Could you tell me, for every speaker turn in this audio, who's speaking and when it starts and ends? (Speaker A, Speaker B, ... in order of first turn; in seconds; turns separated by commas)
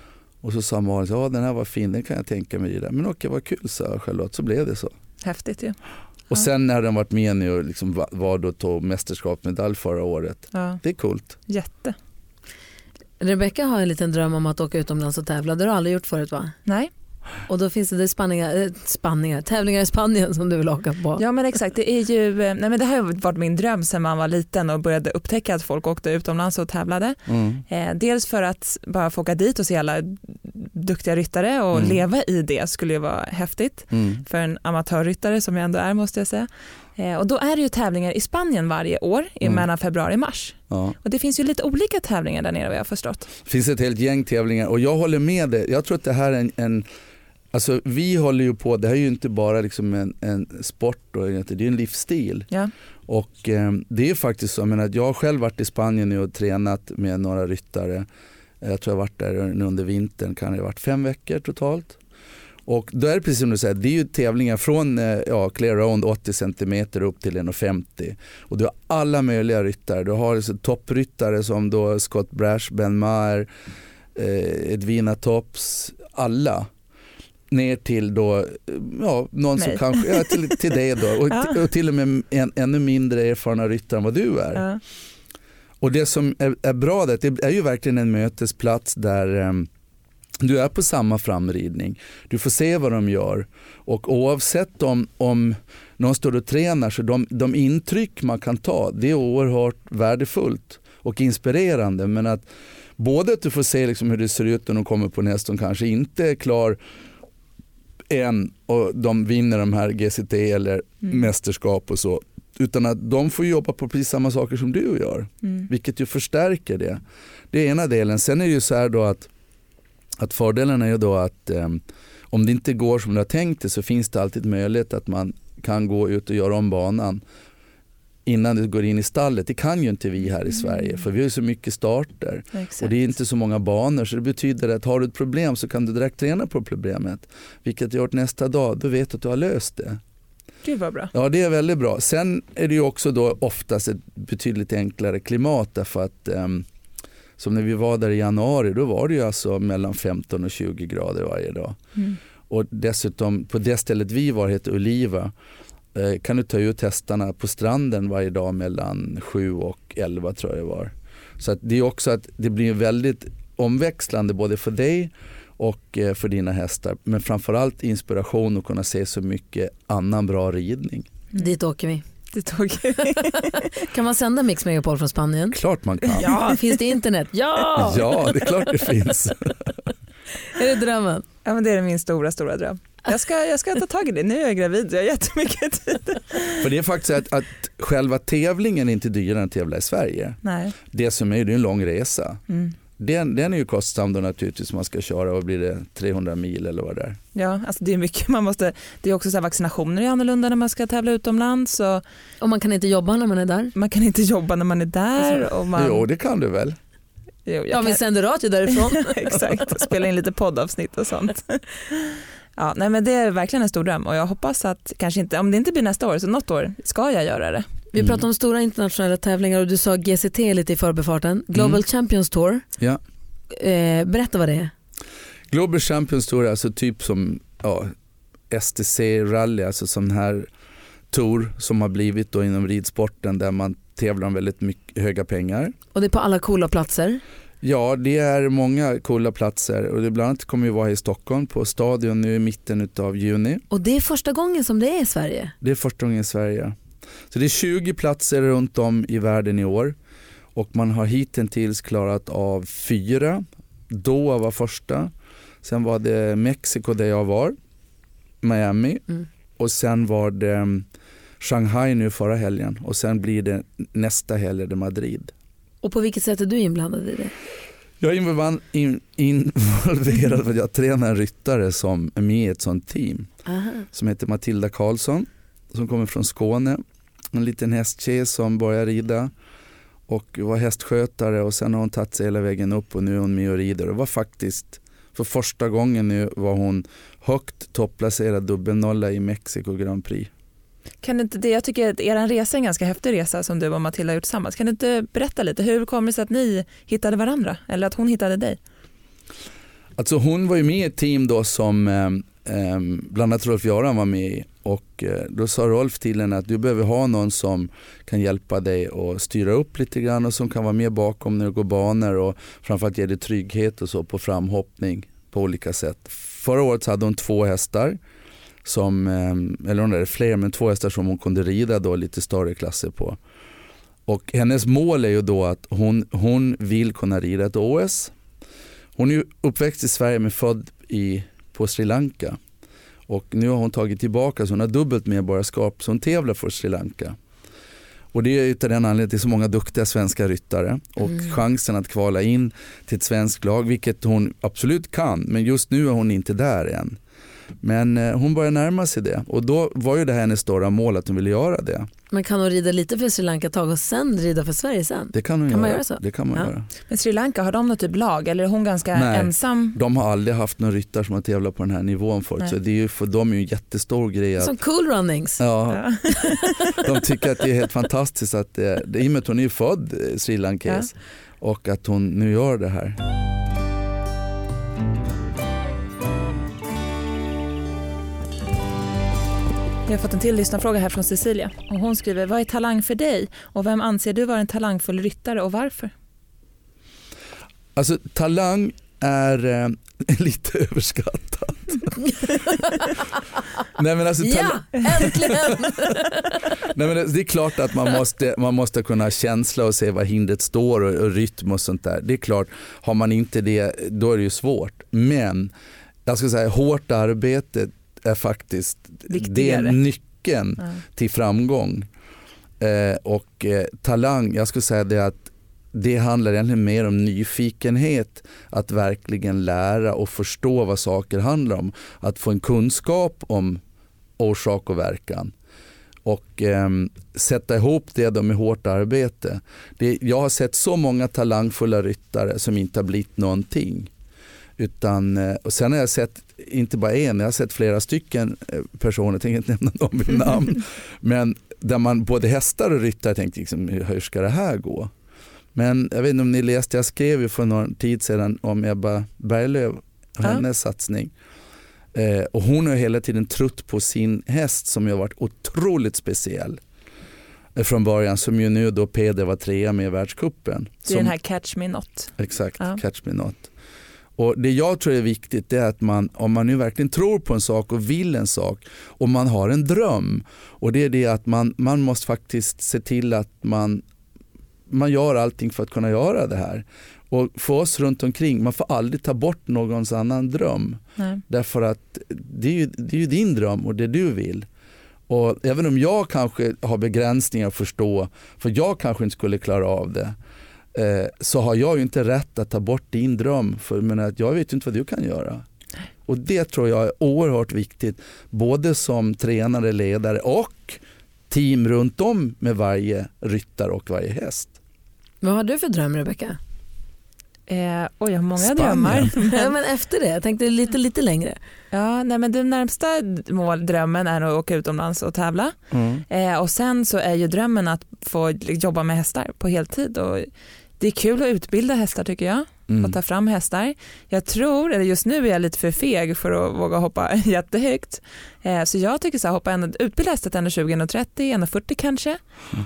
Speaker A: 0.4-4.9, Speaker B: 5.2-5.8, Speaker A: 6.3-11.3, Speaker B: 10.5-10.8, Speaker B: 11.5-11.9, Speaker C: 13.2-16.5, Speaker B: 16.6-16.9, Speaker C: 17.5-21.2, Speaker B: 21.2-43.3, Speaker A: 27.3-27.6, Speaker A: 31.7-32.0, Speaker A: 33.9-34.2, Speaker A: 40.7-41.0, Speaker A: 43.4-46.9, Speaker A: 47.5-52.5, Speaker A: 53.1-58.0, Speaker A: 58.6-62.0, Speaker A: 62.6-73.5, Speaker A: 74.1-76.7, Speaker A: 77.5-84.6, Speaker B: 79.6-80.4, Speaker B: 81.3-81.5, Speaker B: 84.5-84.8, Speaker A: 85.8-89.7, Speaker A: 90.4-102.5, Speaker A: 103.0-106.8, Speaker A: 108.1-119.3, Speaker A: 120.2-127.2, Speaker A: 128.2-140.0, Speaker B: 132.5-132.9, Speaker B: 140.6-141.1, Speaker A: 141.1-146.7, Speaker A: 147.4-151.8, Speaker A: 152.5-155.3, Speaker A: 155.9-171.1, Speaker C: 171.3-172.0, Speaker B: 172.3-173.6, Speaker C: 173.1-175.6, Speaker A: 175.5-176.3, Speaker C: 176.1-178.4, Speaker B: 176.2-176.6, Speaker A: 177.7-179.7, Speaker C: 180.5-181.2, Speaker B: 181.4-186.6, Speaker A: 186.6-192.4, Speaker B: 190.4-190.7, Speaker B: 192.5-192.7, Speaker A: 193.0-197.2, Speaker B: 197.3-202.0, Speaker C: 202.4-203.7, Speaker B: 203.7-206.0, Speaker A: 205.7-206.8, Speaker B: 207.4-208.0, Speaker C: 207.7-209.4, Speaker B: 208.7-217.7, Speaker C: 217.9-222.6, Speaker A: 221.5-221.8, Speaker C: 223.5-224.7, Speaker A: 225.5-227.9, Speaker A: 228.5-230.5, Speaker A: 231.1-235.7, Speaker C: 235.9-237.2, Speaker A: 237.6-243.6, Speaker C: 243.7-245.5, Speaker A: 245.6-246.7, Speaker A: 247.3-249.9, Speaker A: 250.5-255.1, Speaker A: 255.6-257.6, Speaker A: 258.4-259.0, Speaker A: 259.6-260.9, Speaker A: 261.4-265.3, Speaker C: 265.8-267.3, Speaker A: 268.0-273.3, Speaker C: 273.4-273.9, Speaker A: 273.9-276.8, Speaker A: 277.3-279.3, Speaker A: 280.1-290.3, Speaker B: 291.0-298.6, Speaker A: 300.0-318.0, Speaker A: 318.6-323.2, Speaker A: 324.1-328.1, Speaker A: 328.9-332.4, Speaker A: 333.1-337.2, Speaker A: 338.1-347.0, Speaker A: 347.6-351.9, Speaker C: 352.1-356.5, Speaker A: 355.1-356.7, Speaker B: 356.9-359.8, Speaker A: 358.9-364.5, Speaker C: 364.4-365.4, Speaker A: 365.4-365.8, Speaker B: 365.7-366.8, Speaker A: 366.8-373.0, Speaker B: 379.9-385.9, Speaker A: 387.8-392.1, Speaker A: 393.7-396.0, Speaker C: 394.2-396.4, Speaker A: 396.5-405.5, Speaker A: 406.1-411.9, Speaker B: 409.1-409.8, Speaker A: 412.6-423.6, Speaker A: 424.2-425.3, Speaker A: 426.0-433.9, Speaker A: 434.6-444.9, Speaker A: 445.5-451.1, Speaker A: 451.9-456.6, Speaker A: 457.6-461.1, Speaker B: 460.9-462.8, Speaker A: 462.2-463.5, Speaker A: 464.2-473.8, Speaker A: 474.7-484.5, Speaker A: 485.1-490.1, Speaker A: 490.7-495.4, Speaker A: 496.1-504.5, Speaker C: 505.2-506.4, Speaker B: 507.5-509.5, Speaker A: 508.4-509.1, Speaker C: 509.1-511.4, Speaker B: 511.7-515.6, Speaker A: 515.7-516.0, Speaker B: 516.1-532.2, Speaker A: 522.7-523.0